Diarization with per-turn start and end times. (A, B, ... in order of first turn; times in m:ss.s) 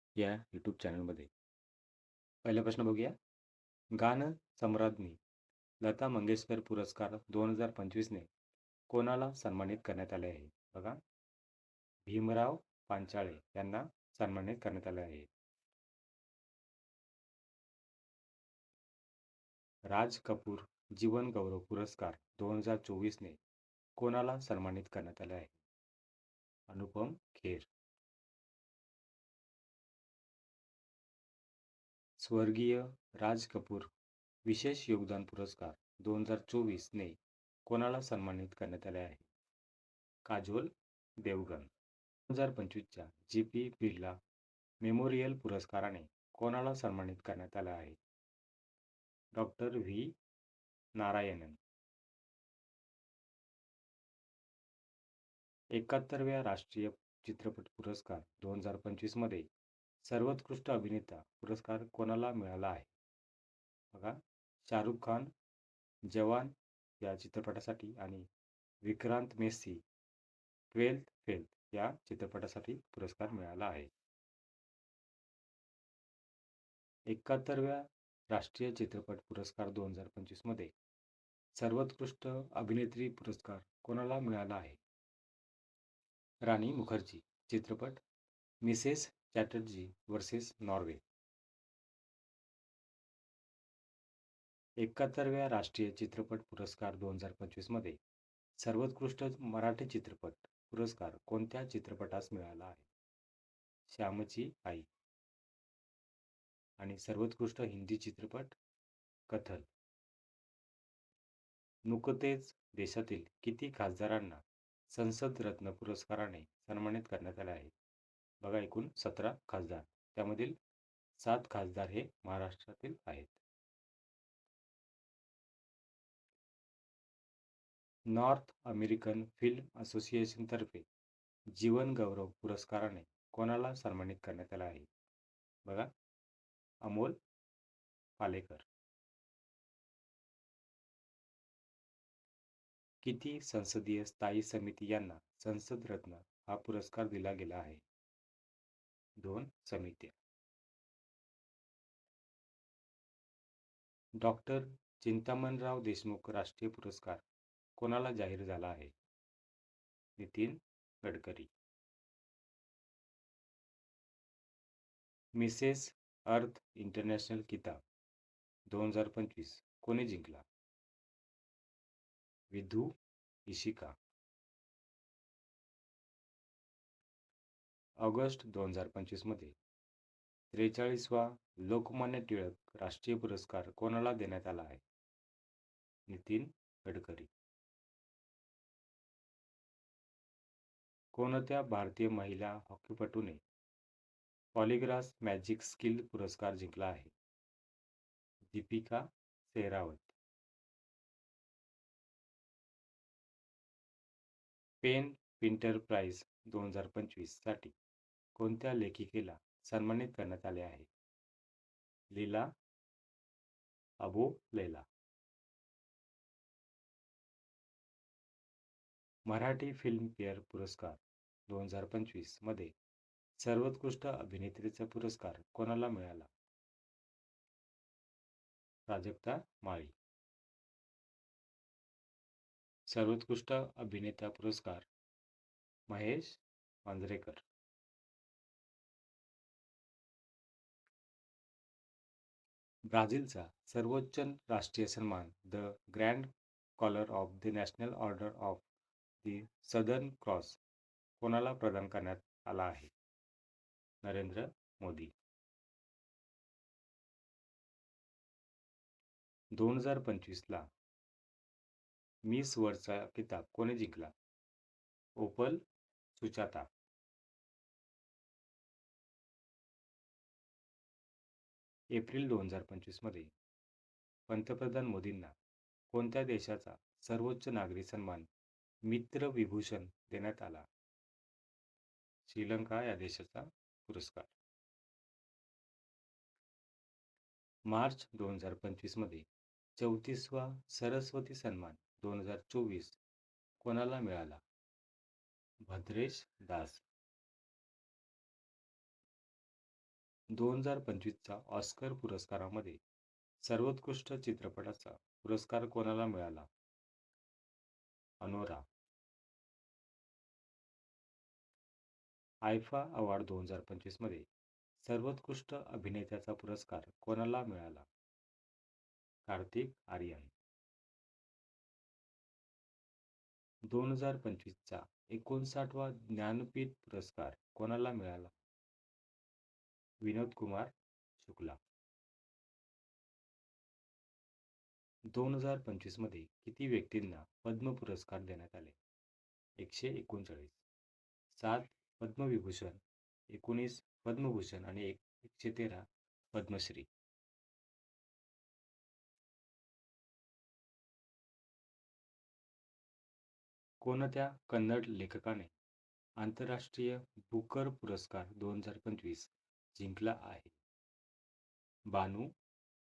0:00.2-0:01.3 A
0:02.4-0:03.1 A
0:04.0-0:05.2 A
0:05.8-0:08.3 A
0:08.9-0:11.0 A
0:12.0-0:15.3 A
0:19.9-0:23.4 A
0:24.0-0:25.5 A
0:26.7-0:27.7 A
0:32.2-0:33.9 A
0:34.4-0:39.2 A
0:40.2-0:41.7 A
0:42.3-0:44.2 A
0:44.8-0:48.0 A
0:49.3-0:50.2 A
0:51.0-0:51.6 A
0:55.7-0:59.4 A
1:00.0-1:02.9 A
1:03.9-1:05.3 A
1:06.1-1:08.3 A
1:08.8-1:09.8 A
1:10.7-1:13.9 A
1:17.1-1:20.7 A
1:21.6-1:24.8 A
1:26.4-1:28.0 A
1:28.6-1:31.0 A
1:34.8-1:38.0 A
1:38.6-1:42.9 A
1:43.9-1:44.9 A
1:46.8-1:48.5 A
1:49.3-1:49.7 A
1:51.8-1:57.7 A
1:58.4-2:00.6 A
2:01.2-2:03.4 A
2:08.1-2:10.8 A
2:11.5-2:14.9 A
2:15.6-2:15.9 A
2:16.8-2:17.2 A
2:18.2-2:18.6 A
2:23.0-2:27.8 A
2:29.2-2:30.1 A
2:34.2-2:37.2 A
2:37.8-2:38.9 A
2:40.2-2:41.5 A
2:45.3-2:47.8 A
2:48.7-2:50.4 A
2:52.5-2:52.9 A
2:53.5-2:53.9 A
2:58.0-2:59.6 A
3:00.5-3:04.8 A
3:06.1-3:07.3 A
3:11.1-3:13.4 A
3:14.5-3:17.1 A
3:18.5-3:20.1 A
3:24.8-3:27.7 A
3:28.4-3:30.9 A
3:32.1-3:32.5 A
3:34.0-3:34.8 A
3:39.2-3:42.7 A
3:43.4-3:46.3 A
3:48.9-3:50.0 A
3:52.9-3:54.9 A
3:55.9-3:57.4 A
4:02.9-4:08.6 A
4:09.2-4:10.6 A
4:11.2-4:12.9 A
4:14.0-4:15.1 A
4:19.5-4:20.7 A
4:22.2-4:24.1 A
4:25.2-4:25.6 A
4:26.1-4:26.7 A
4:31.9-4:33.3 A
4:34.3-4:35.3 A
4:35.9-4:38.3 A
4:38.8-4:40.6 A
4:42.2-4:44.3 A
4:47.7-4:49.2 A
4:49.8-4:53.0 A
4:53.6-4:54.4 A
4:55.6-4:56.8 A
5:00.3-5:02.8 A
5:03.4-5:06.5 A
5:08.2-5:08.6 A
5:12.4-5:14.2 A
5:14.8-5:17.8 A
5:19.2-5:20.3 A
5:23.6-5:28.3 A
5:30.0-5:31.6 A
5:35.1-5:38.8 A
5:39.6-5:40.6 A
5:41.3-5:46.9 A
5:53.8-5:55.5 A
5:56.2-6:00.5 A
6:01.9-6:02.3 A